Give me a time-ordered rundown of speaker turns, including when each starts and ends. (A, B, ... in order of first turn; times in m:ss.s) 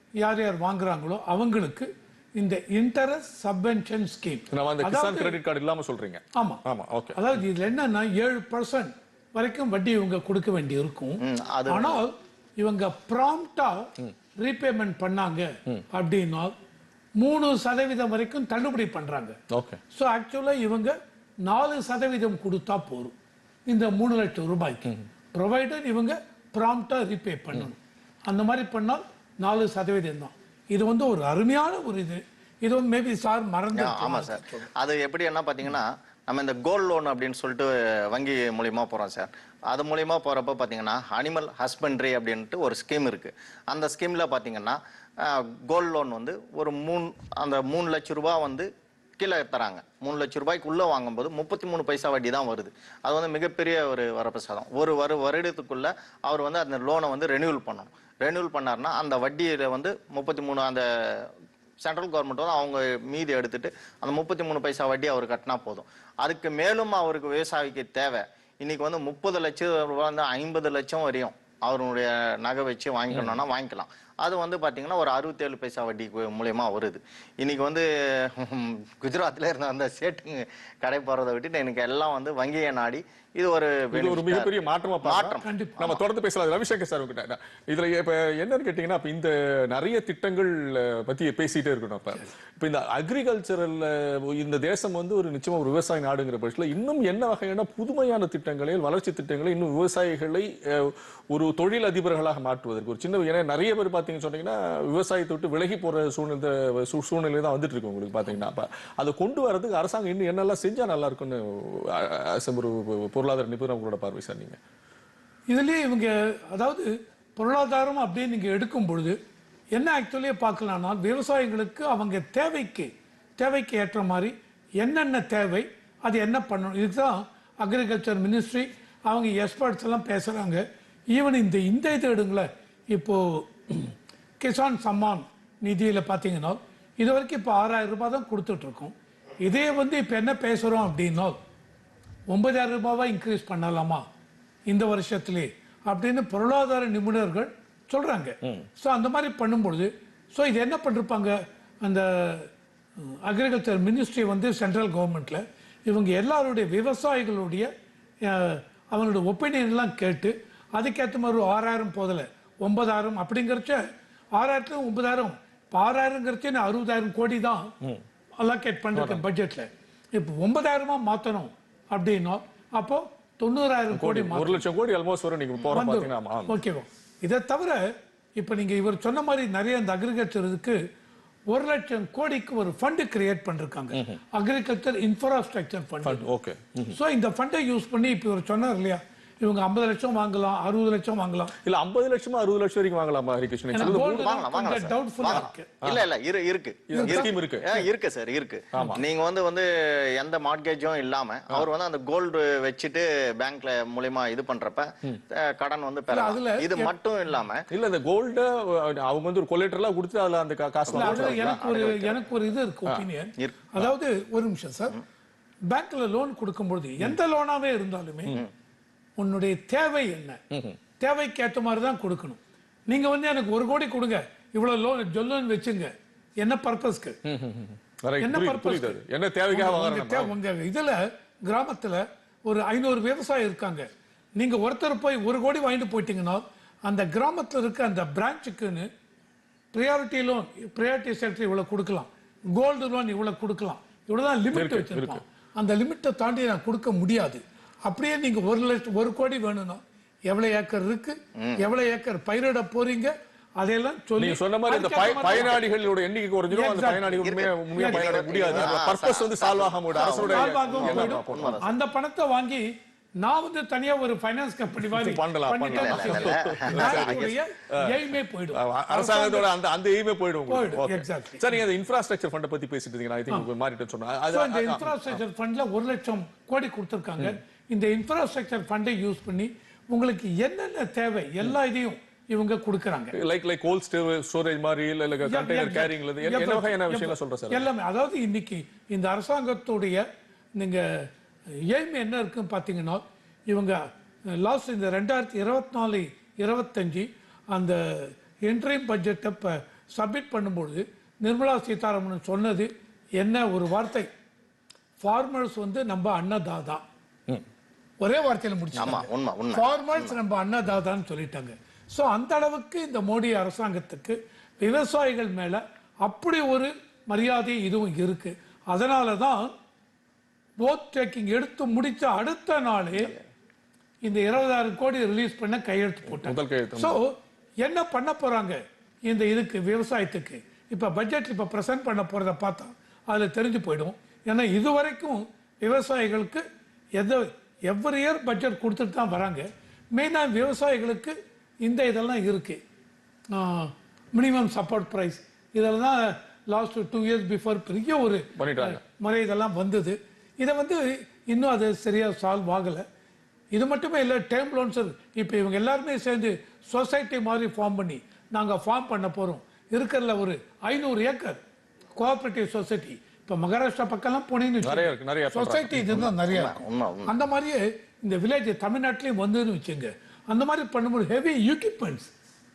0:00.2-0:05.4 A
0:04.5-0:07.4 B
0:06.4-0:06.6 A
0:07.1-0:16.5 A
0:11.2-0:12.0 C
0:17.2-0:19.4 A
0:19.5-0:19.8 B
0:19.9-0:23.1 A
0:23.7-0:34.7 A
0:33.7-1:24.5 C
1:13.1-1:13.4 B
1:23.9-1:54.6 B
1:25.0-1:26.0 C
1:25.4-1:25.8 A
1:55.5-1:59.2 A
1:59.8-2:21.4 A
2:22.3-2:24.0 A
2:24.7-2:37.7 A
2:38.2-2:43.8 A
2:44.4-2:47.7 A
2:48.4-2:54.6 A
2:49.0-2:49.2 B
2:53.9-2:56.6 B
2:55.7-3:00.8 A
3:01.5-3:06.3 A
3:03.9-3:04.2 B
3:06.0-3:07.0 B
3:06.9-3:11.5 A
3:11.6-3:14.3 B
3:13.8-3:15.7 A
3:13.8-3:27.6 C
3:15.2-3:16.1 B
3:16.9-3:17.7 B
3:16.9-3:17.8 A
3:18.7-3:19.0 B
3:26.1-3:26.9 A
3:27.7-3:31.6 B
3:30.9-3:32.3 C
3:30.9-3:35.0 A
3:35.7-3:38.4 A
3:39.2-3:40.4 A
3:40.5-3:40.8 B
3:41.0-3:47.2 A
3:47.2-3:50.3 B
3:48.2-3:49.0 A
3:49.5-3:58.9 A
3:59.7-4:15.6 A
4:04.5-4:05.2 B
4:11.4-4:11.6 C
4:14.2-4:21.6 B
4:15.0-4:15.8 C
4:16.5-4:17.2 A
4:17.2-4:21.7 C
4:17.8-4:18.7 A
4:20.0-4:29.5 A
4:24.8-4:35.2 B
4:25.7-4:27.4 C
4:30.5-4:31.6 A
4:34.3-4:43.2 A
4:43.1-4:47.7 B
4:45.2-4:50.0 A
4:50.6-4:51.1 A
4:51.7-5:04.1 A
5:05.0-5:06.8 A
5:08.0-5:19.5 A
5:08.8-5:10.2 C
5:20.6-5:23.1 A
5:24.0-5:36.4 A
5:26.0-5:27.0 B
5:37.0-5:42.6 A
5:43.3-5:52.8 A
5:48.4-5:48.8 B
5:53.5-6:01.4 A
6:02.0-6:12.1 A
6:04.6-6:06.1 B
6:06.2-6:07.2 C